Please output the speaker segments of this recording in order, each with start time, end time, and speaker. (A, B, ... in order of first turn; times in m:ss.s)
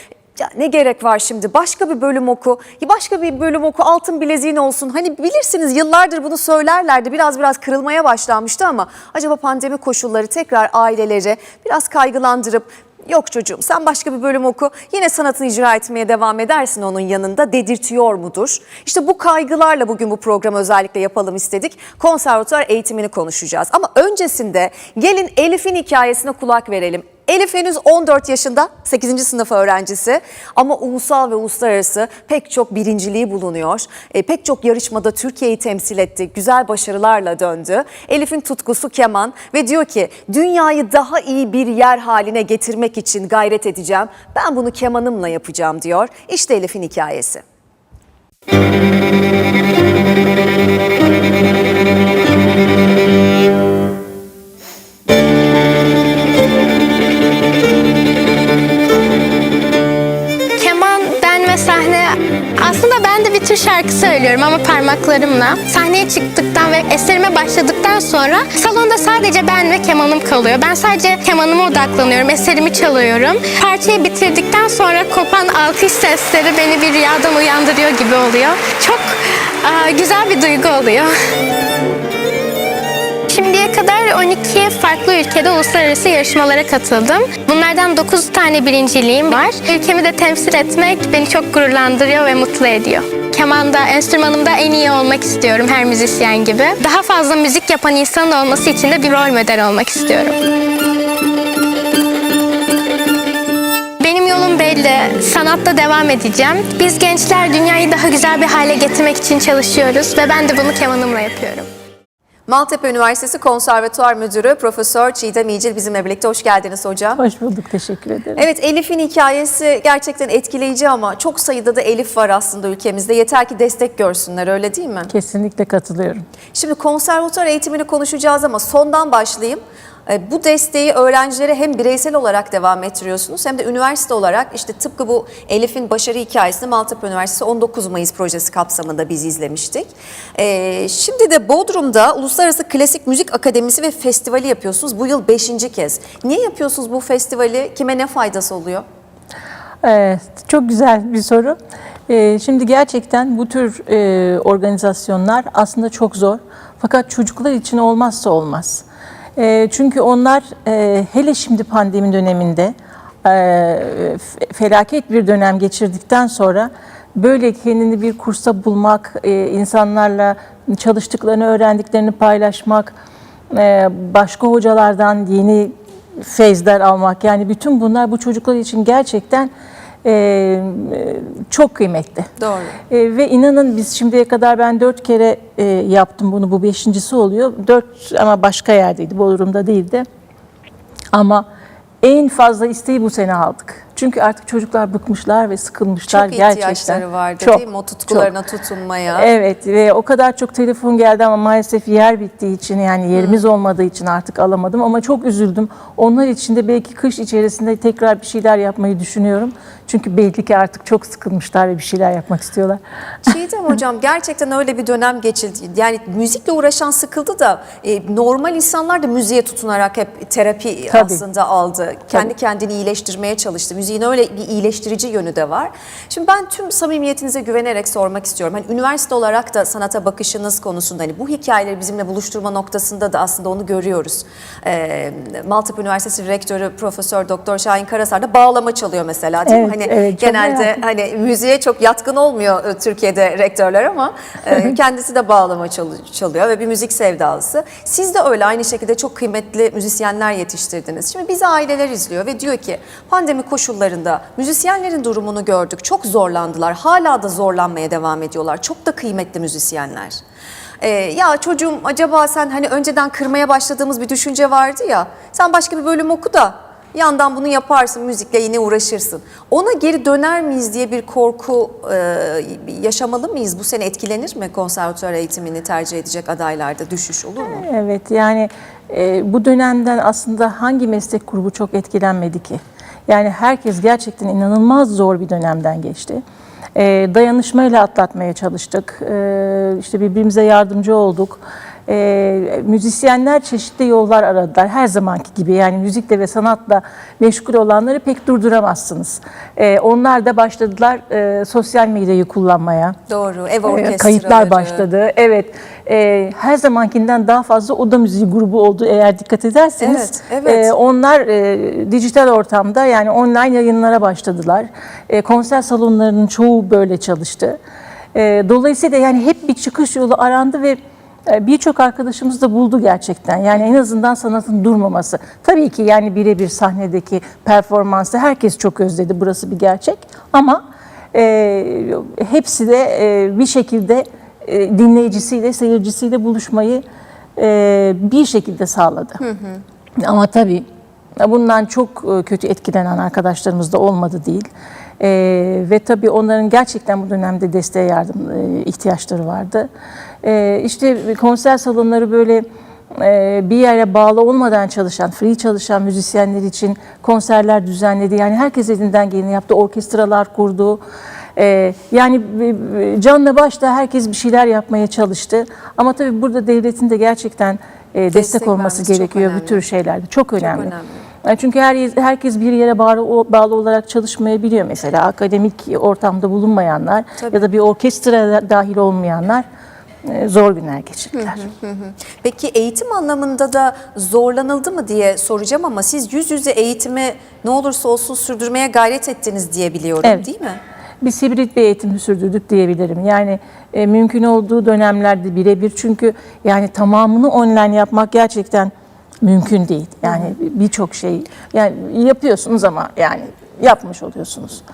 0:00.4-0:47.4 A
1:00.6-1:19.1 B
1:19.6-1:21.1 B
1:23.3-1:40.4 B
1:44.0-1:51.7 B
1:52.5-1:57.2 A
1:57.2-1:58.4 C
1:58.4-2:05.1 A
2:05.1-2:06.2 C
2:06.5-2:28.8 A
2:29.8-2:31.6 C
2:32.1-2:38.8 C
2:39.4-2:53.0 C
2:53.5-2:59.5 C
3:00.0-3:02.3 C
3:02.4-3:02.8 A
3:02.9-3:10.0 C
3:11.1-3:11.4 C
3:12.0-3:18.3 C
3:16.1-3:19.3 A
3:19.1-3:32.8 C
3:23.2-3:23.4 A
3:33.2-4:20.2 A
3:40.9-3:41.2 C
3:59.4-4:00.8 C
4:20.8-4:37.6 A
4:37.4-4:46.2 C
4:46.7-5:03.0 C
5:03.1-5:04.8 A
5:03.6-5:17.6 C
5:09.8-5:10.7 A
5:18.1-5:30.6 C
5:31.1-5:36.8 C
5:37.4-5:39.2 C
5:39.2-5:39.6 A
5:40.0-5:40.7 C
5:41.2-5:44.5 C
5:45.0-5:49.7 C
5:50.2-6:00.8 C
6:01.4-6:10.7 C
6:08.1-6:09.6 A
6:10.4-6:11.0 A
6:11.2-6:19.4 C
6:17.2-6:17.5 A
6:20.0-6:21.4 C
6:21.1-6:30.6 A
6:31.0-6:38.7 C
6:39.2-6:44.6 C
6:40.1-6:40.3 A